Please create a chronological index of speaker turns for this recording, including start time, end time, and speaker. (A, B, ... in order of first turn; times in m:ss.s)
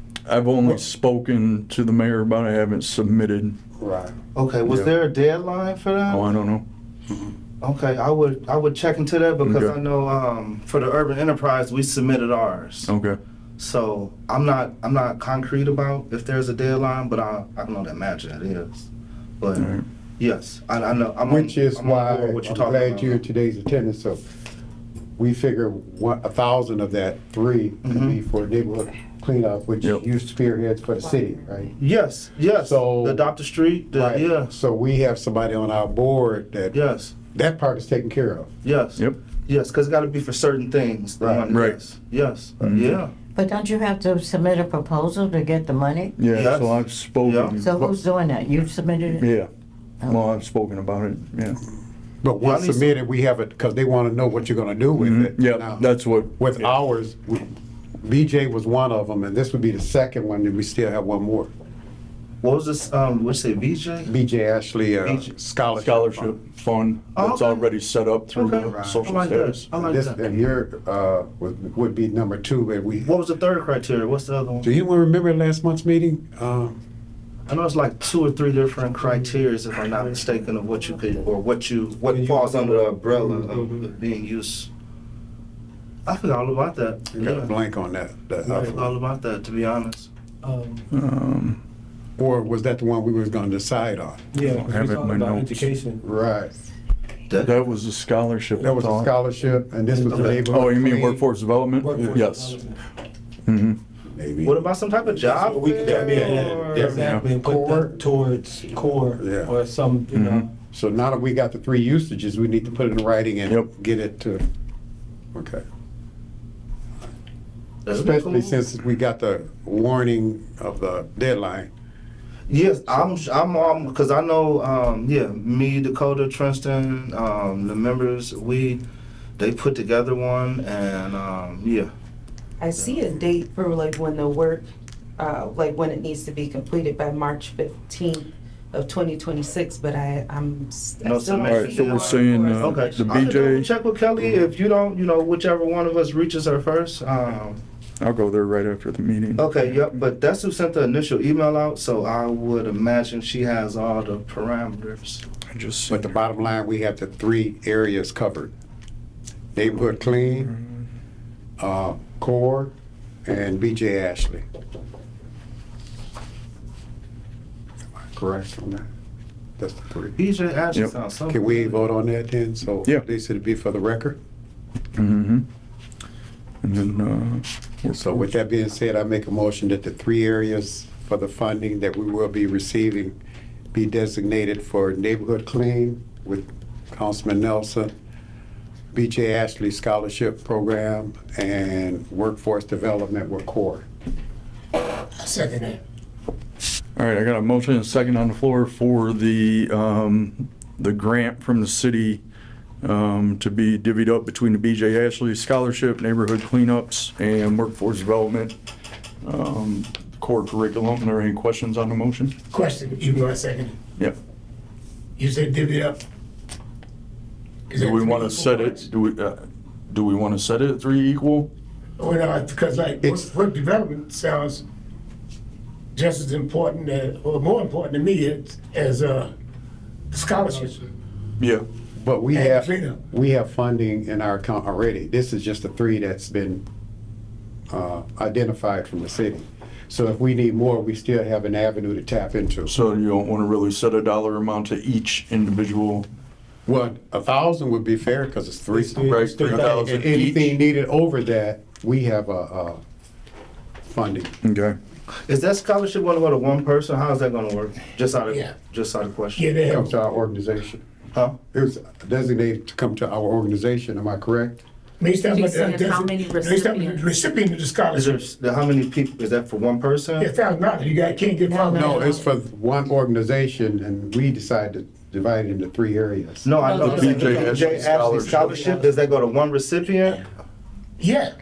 0:00.2-0:03.6 A
0:03.8-0:04.1 B
0:04.4-0:06.4 C
0:06.1-0:06.6 A
0:07.6-0:12.9 C
0:09.4-0:09.7 A
0:12.8-0:13.2 A
0:13.6-0:18.9 C
0:19.4-0:23.2 C
0:19.6-0:19.8 A
0:21.2-0:24.2 B
0:25.2-0:31.8 B
0:27.8-0:28.2 C
0:31.8-0:34.5 C
0:32.6-0:33.3 B
0:33.9-0:36.8 B
0:36.7-0:37.2 C
0:37.3-0:38.5 B
0:38.6-0:43.1 C
0:41.2-0:41.5 B
0:41.5-0:41.8 A
0:42.6-0:43.0 A
0:43.3-0:46.1 D
0:46.2-0:48.0 A
0:46.3-0:47.6 C
0:47.6-0:49.3 D
0:49.1-0:49.5 A
0:50.0-0:50.4 D
0:50.0-0:51.6 A
0:52.2-1:01.5 B
0:52.4-0:52.9 C
0:55.0-0:56.7 A
1:02.4-1:04.1 C
1:04.0-1:06.4 B
1:05.0-1:05.3 C
1:05.8-1:09.7 A
1:07.2-1:07.7 C
1:08.3-1:10.2 C
1:08.6-1:13.1 B
1:13.0-1:14.7 C
1:14.6-1:16.8 B
1:17.5-1:24.7 C
1:22.1-1:23.8 E
1:26.0-1:27.5 C
1:27.1-1:28.8 B
1:28.4-1:28.9 E
1:28.5-1:30.1 C
1:30.4-1:30.8 E
1:30.9-1:31.6 A
1:32.2-1:34.7 B
1:34.3-1:36.0 E
1:34.4-1:35.7 A
1:36.0-1:36.7 B
1:37.3-1:37.5 C
1:37.4-1:39.1 A
1:38.6-1:41.2 B
1:39.9-1:40.7 E
1:40.5-1:42.6 A
1:41.8-1:42.8 E
1:42.0-1:42.2 B
1:43.4-1:43.8 A
1:44.1-1:44.7 B
1:44.4-1:47.0 C
1:45.2-1:50.5 E
1:45.8-1:48.0 B
1:47.0-1:47.3 A
1:49.2-1:49.5 B
1:50.1-1:50.5 A
1:50.7-1:54.4 B
1:55.3-1:55.6 B
1:57.8-1:58.6 C
1:57.9-2:01.7 B
2:02.5-2:08.8 C
2:09.4-2:11.9 C
2:12.6-2:14.6 F
2:12.8-2:13.1 C
2:15.2-2:23.4 F
2:21.0-2:27.6 C
2:21.4-2:23.7 A
2:28.0-2:29.7 A
2:29.4-2:35.2 C
2:35.5-2:36.1 A
2:35.9-2:38.5 B
2:39.5-2:40.5 B
2:41.6-2:42.7 B
2:43.2-2:44.4 B
2:48.1-2:48.9 B
2:49.6-2:50.2 B
2:50.2-2:51.8 C
2:51.3-2:54.2 B
2:55.0-2:55.4 A
2:56.6-2:58.3 A
2:57.9-3:03.2 B
3:03.7-3:07.9 B
3:08.9-3:13.8 B
3:15.1-3:15.8 G
3:17.0-3:22.2 A
3:22.8-3:28.5 A
3:29.2-3:32.3 A
3:32.5-3:33.8 G
3:35.2-3:36.0 G
3:37.7-3:38.8 G
3:37.7-3:41.5 A
3:42.0-3:44.6 G
3:45.9-3:49.3 G
3:50.1-3:50.9 G
3:52.0-3:56.6 B
3:52.3-3:53.0 G
3:57.7-4:02.8 B
4:02.7-4:06.1 A
4:06.7-4:12.8 B
4:08.7-4:10.0 E
4:09.1-4:10.6 A
4:13.9-4:14.3 B
4:14.4-4:14.8 A
4:15.3-4:19.5 C
4:18.3-4:18.5 G
4:19.4-4:19.9 G
4:19.7-4:20.8 B
4:21.5-4:24.6 B
4:25.0-4:28.2 G
4:25.2-4:27.0 F
4:27.9-4:30.3 C
4:30.2-4:32.2 G
4:31.4-4:32.2 D
4:31.7-4:36.5 B
4:36.4-4:40.3 C
4:36.6-4:39.1 E
4:36.7-4:38.6 A
4:37.0-4:37.2 G
4:41.0-4:41.3 G